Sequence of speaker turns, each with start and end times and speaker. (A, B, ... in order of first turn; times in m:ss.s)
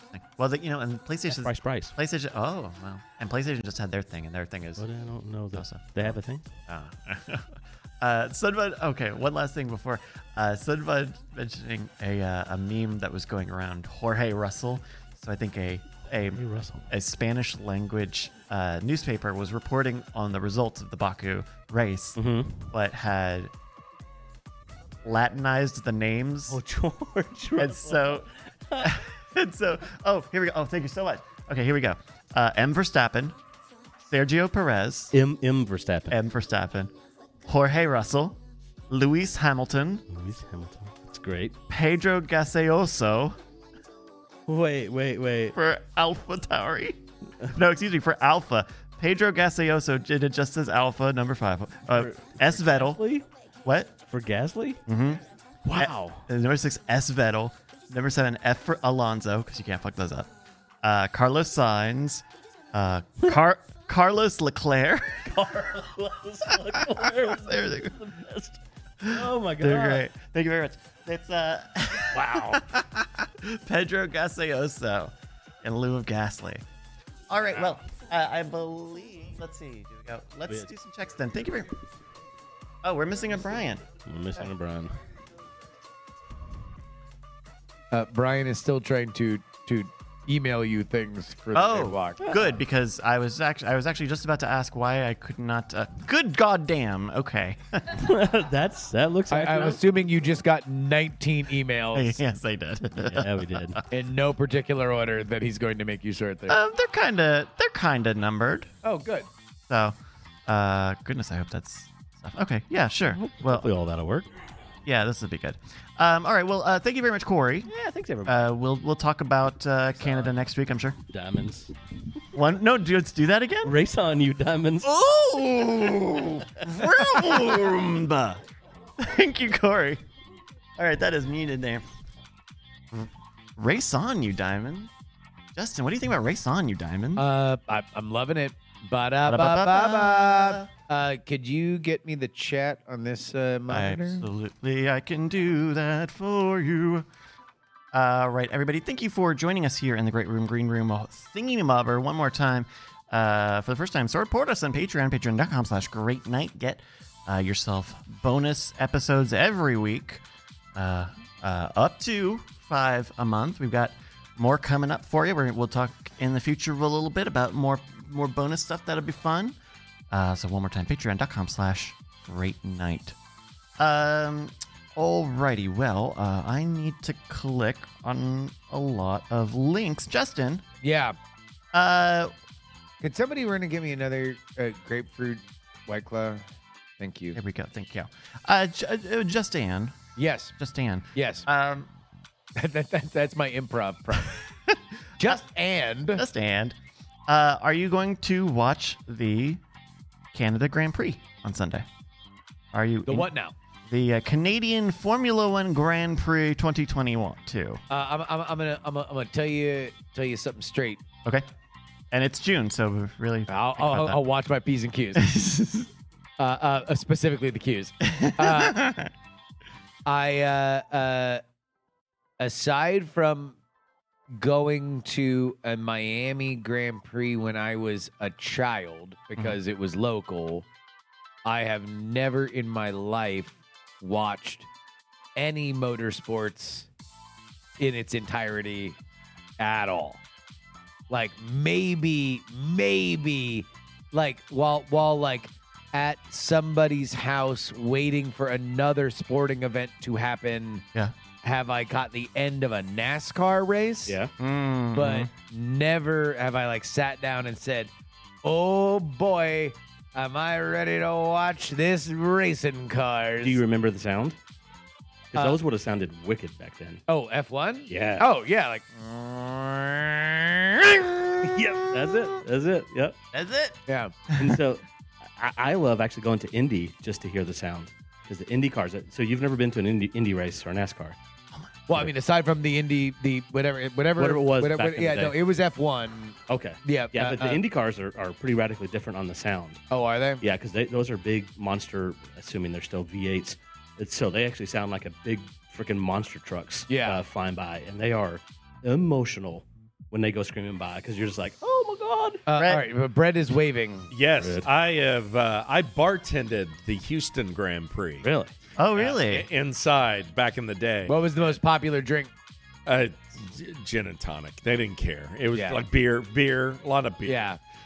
0:00.1-0:04.8 A
0:01.3-0:02.0 B
0:04.8-0:06.4 B
0:05.5-0:23.5 A
0:16.3-0:16.9 B
0:22.2-0:22.7 B
0:25.0-0:26.6 A
0:26.5-0:29.0 B
0:27.6-0:28.3 A
0:28.8-0:33.4 A
0:34.1-0:35.2 A
0:35.1-0:36.2 B
0:36.1-0:36.9 A
0:37.4-0:40.0 A
0:40.1-0:41.6 B
0:41.7-0:43.4 A
0:44.5-0:45.6 B
0:45.5-0:47.0 A
0:47.5-0:53.0 A
0:51.9-0:53.3 B
0:53.6-0:53.9 A
0:54.0-0:54.8 B
0:54.9-0:55.2 A
0:55.6-0:56.3 B
0:55.7-1:00.3 A
1:00.8-1:05.5 A
1:05.2-1:10.0 B
1:06.5-1:08.0 A
1:09.0-1:16.6 A
1:12.1-1:12.8 B
1:17.3-1:21.8 A
1:22.8-1:23.9 A
1:24.0-1:25.0 B
1:27.9-1:32.3 C
1:31.5-1:37.9 A
1:37.9-1:39.8 B
1:39.3-1:42.2 C
1:41.9-1:43.8 A
1:43.0-1:43.8 B
1:43.9-1:46.6 C
1:46.5-1:48.7 A
1:48.8-1:49.3 C
1:49.7-1:49.9 A
1:50.5-1:53.7 A
1:53.1-1:54.3 B
1:54.8-1:57.7 A
1:57.6-1:58.5 B
1:58.2-2:01.0 A
2:00.0-2:00.3 B
2:01.1-2:01.7 B
2:02.3-2:03.7 A
2:03.6-2:04.9 B
2:04.8-2:08.4 A
2:06.8-2:07.4 B
2:09.0-2:10.0 A
2:10.8-2:11.8 A
2:12.9-2:14.9 A
2:15.6-2:17.2 A
2:17.2-2:24.3 C
2:19.2-2:20.7 A
2:23.7-2:27.0 A
2:27.9-2:40.2 A
2:40.7-2:49.6 A
2:50.1-2:53.2 A
2:53.8-3:00.6 A
3:00.8-3:01.2 C
3:01.7-3:02.3 A
3:03.0-3:06.5 C
3:07.0-3:07.4 C
3:07.3-3:10.0 A
3:10.2-3:10.5 C
3:10.6-3:11.9 A
3:11.1-3:11.4 C
3:12.5-3:14.4 C
3:14.7-3:15.4 A
3:15.2-3:16.2 C
3:16.2-3:16.7 A
3:17.3-3:19.6 A
3:20.3-3:21.8 A
3:22.7-3:23.3 A
3:23.0-3:23.5 C
3:23.9-3:27.8 A
3:27.9-3:31.0 C
3:32.1-3:34.2 A
3:33.5-3:35.3 C
3:35.2-3:35.9 A
3:36.4-3:38.9 C
3:38.1-3:39.1 A
3:40.0-3:41.4 C
3:42.4-3:43.6 C
3:44.3-3:50.7 C
3:51.4-3:54.7 C
3:55.3-3:56.9 C
3:57.8-3:59.0 C
3:59.6-4:00.2 C
4:01.1-4:10.8 C
4:11.4-4:14.2 C
4:14.1-4:14.3 B
4:14.4-4:15.3 A
4:14.9-4:17.9 C
4:18.4-4:23.6 C
4:23.4-4:24.4 B
4:25.3-4:27.0 B
4:25.3-4:25.6 C
4:27.1-4:28.8 C
4:27.9-4:28.2 B
4:29.0-4:30.2 A
4:31.4-4:33.2 B
4:33.3-4:33.8 A
4:33.9-4:34.2 C
4:34.4-4:34.8 B
4:35.4-4:41.2 B
4:41.9-4:47.6 C
4:44.2-4:45.3 B
4:46.5-4:49.8 B
4:49.9-4:50.4 C
4:50.4-5:02.4 B
4:56.9-4:57.2 C
5:02.5-5:04.1 C
5:02.6-5:02.8 A
5:04.1-5:08.3 D
5:04.4-5:04.7 B
5:08.2-5:08.5 B
5:08.8-5:09.5 A
5:08.9-5:11.2 D
5:11.0-5:12.3 C
5:12.8-5:17.5 D
5:15.5-5:15.8 C
5:17.2-5:17.6 C